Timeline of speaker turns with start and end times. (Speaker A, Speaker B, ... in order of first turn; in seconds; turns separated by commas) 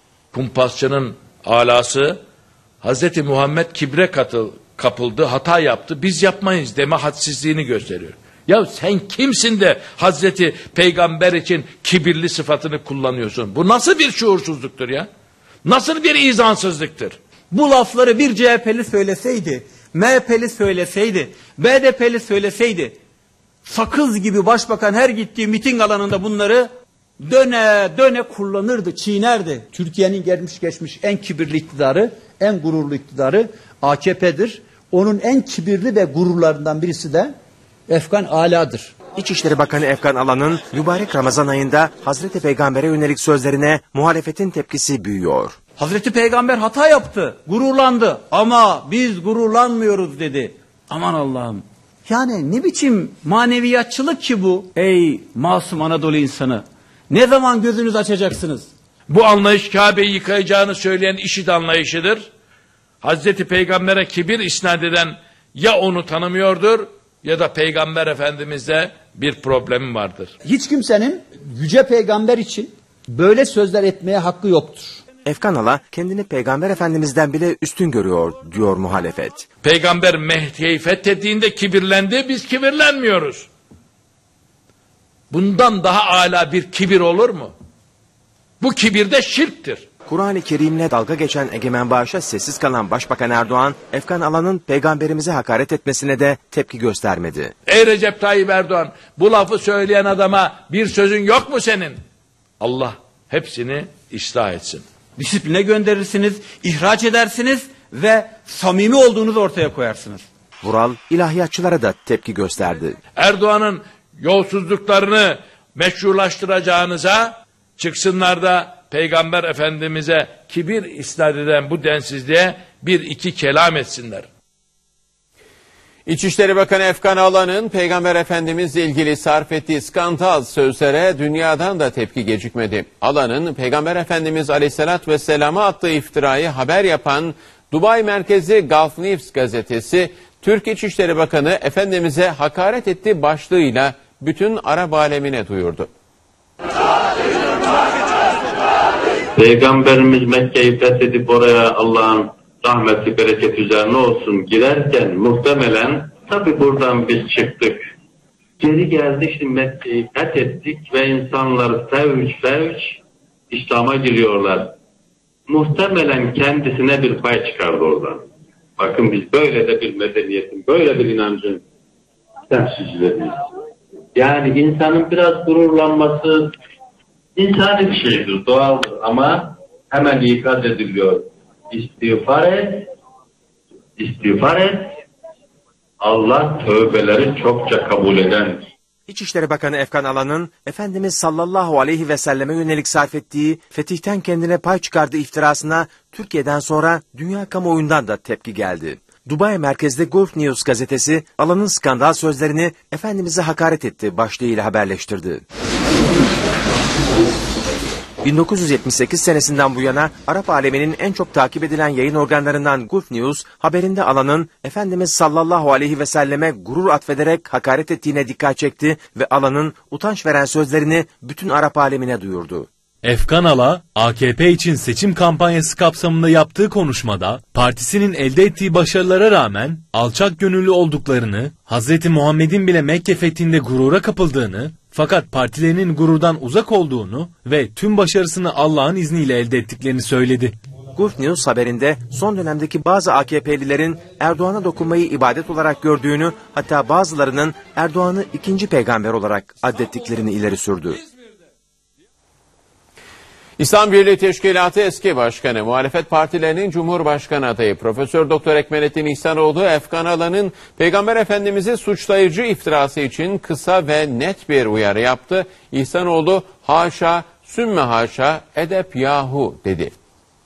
Speaker A: 0.3-2.2, Speaker A: 2.8-15.1, Speaker A: 15.6-17.2, Speaker B: 17.5-22.9, Speaker B: 23.6-26.7, Speaker B: 27.2-37.3, Speaker B: 37.9-38.9, Speaker C: 39.1-45.6, Speaker B: 45.8-58.7, Speaker A: 59.1-62.3, Speaker A: 63.0-70.3, Speaker B: 70.4-75.0, Speaker C: 75.2-79.5, Speaker A: 79.6-83.5, Speaker A: 85.3-87.5, Speaker A: 88.6-89.8, Speaker C: 90.1-97.5, Speaker A: 97.7-102.0, Speaker A: 102.6-104.8, Speaker B: 105.2-110.2, Speaker C: 110.6-113.0, Speaker A: 113.2-124.3, Speaker D: 126.0-145.9, Speaker E: 149.3-157.8, Speaker E: 158.6-164.8, Speaker E: 165.5-168.3, Speaker E: 168.8-171.6, Speaker E: 172.5-173.3, Speaker E: 174.2-176.5, Speaker E: 177.3-182.9, Speaker E: 184.0-184.9, Speaker E: 186.0-188.7, Speaker C: 189.1-205.4, Speaker C: 208.2-222.7, Speaker F: 223.0-240.6, Speaker C: 240.9-251.0, Speaker D: 253.6-269.9